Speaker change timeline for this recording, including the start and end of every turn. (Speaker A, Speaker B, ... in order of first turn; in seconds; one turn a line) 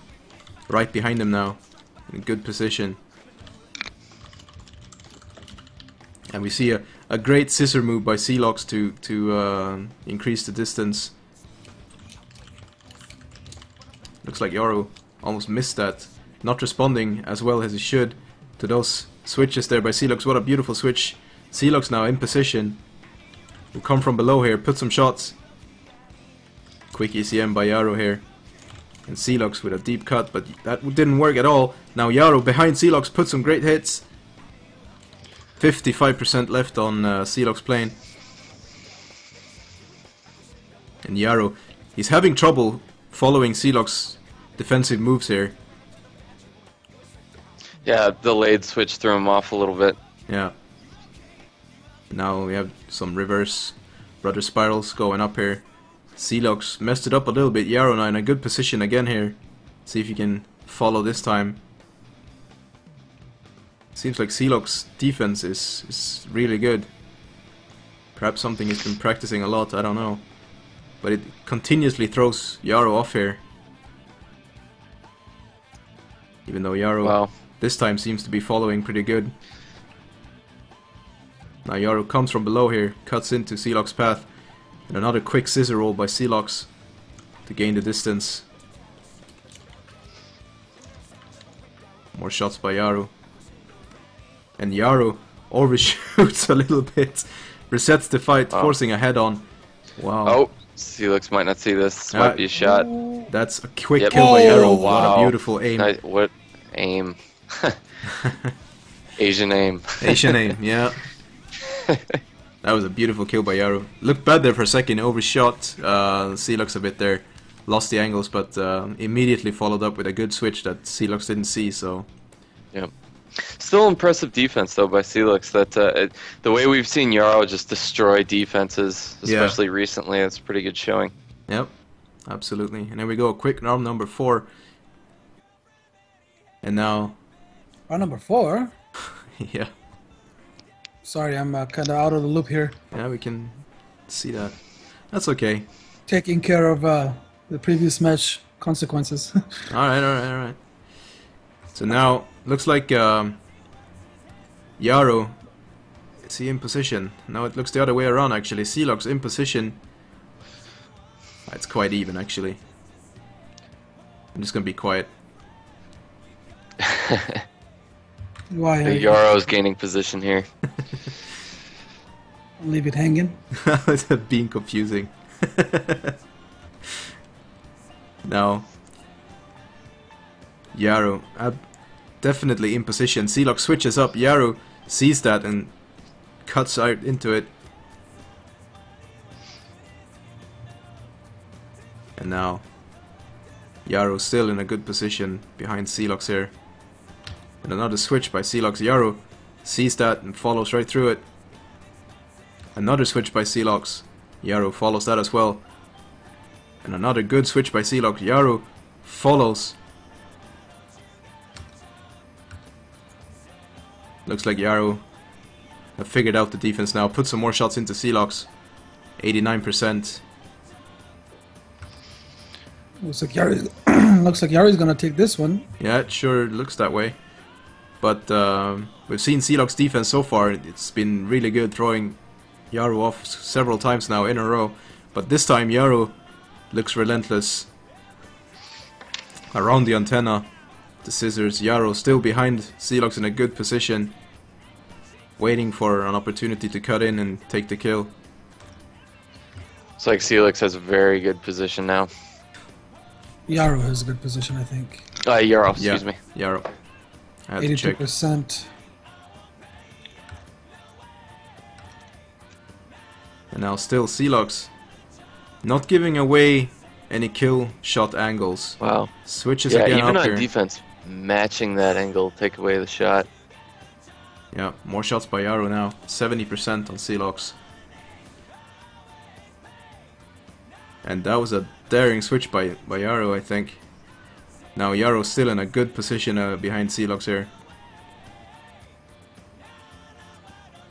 Speaker A: 0.7-3.0
Speaker A: 6.3-11.1
Speaker A: 14.2-22.8
Speaker A: 23.7-25.4
Speaker A: 26.9-28.2
Speaker A: 29.1-34.1
Speaker A: 35.6-38.0
Speaker A: 41.0-45.6
Speaker B: 47.8-50.0
Speaker A: 50.3-50.5
Speaker A: 52.1-61.6
Speaker A: 64.0-66.9
Speaker A: 68.2-70.2
Speaker A: 71.0-73.4
Speaker A: 76.5-79.3
Speaker B: 77.0-77.3
Speaker A: 81.7-84.3
Speaker A: 84.9-86.7
Speaker A: 87.5-88.5
Speaker A: 92.1-93.1
Speaker A: 94.6-99.4
Speaker A: 100.0-100.4
Speaker B: 100.2-102.9
Speaker A: 102.1-102.4
Speaker C: 102.6-103.3
Speaker A: 103.3-105.9
Speaker B: 104.0-107.8
Speaker C: 104.1-105.2
Speaker A: 108.2-108.5
Speaker B: 109.2-110.4
Speaker A: 110.0-111.1
Speaker A: 112.6-122.1
Speaker B: 122.7-131.1
Speaker A: 129.2-129.6
Speaker A: 131.5-131.7
Speaker A: 132.3-134.5
Speaker A: 136.6-137.2
Speaker C: 137.9-138.7
Speaker A: 139.4-139.7
Speaker C: 141.0-142.8
Speaker A: 142.9-144.6
Speaker A: 145.1-145.7
Speaker C: 146.1-149.3
Speaker A: 149.7-150.6
Speaker A: 151.8-153.4
Speaker A: 154.8-155.3
Speaker A: 156.2-159.8
Speaker A: 161.5-162.6
Speaker A: 164.3-165.1
Speaker B: 166.9-167.3
Speaker C: 168.5-169.3
Speaker B: 168.8-170.5
Speaker C: 172.6-173.4
Speaker A: 173.6-176.2
Speaker A: 178.2-178.7
Speaker A: 180.7-181.6
Speaker A: 182.2-185.8
Speaker A: 186.4-187.5
Speaker A: 192.2-192.7
Speaker A: 193.9-196.5
Speaker A: 197.6-201.2
Speaker A: 202.8-205.7
Speaker A: 206.8-209.8
Speaker A: 214.3-215.0
Speaker A: 216.0-218.5
Speaker A: 219.2-220.2
Speaker C: 223.0-225.7
Speaker A: 225.8-227.2
Speaker A: 228.0-232.2
Speaker A: 232.7-236.2
Speaker A: 236.7-237.7
Speaker A: 239.5-240.5
Speaker A: 241.0-244.2
Speaker A: 245.4-248.1
Speaker B: 250.0-252.1
Speaker C: 253.5-255.0
Speaker B: 255.2-256.2
Speaker A: 255.8-256.7
Speaker A: 257.5-258.0
Speaker C: 257.6-258.7
Speaker A: 263.5-264.7
Speaker A: 265.6-270.5
Speaker B: 268.8-269.1
Speaker B: 269.7-273.3
Speaker A: 274.5-277.6
Speaker A: 281.0-283.8
Speaker A: 284.8-287.5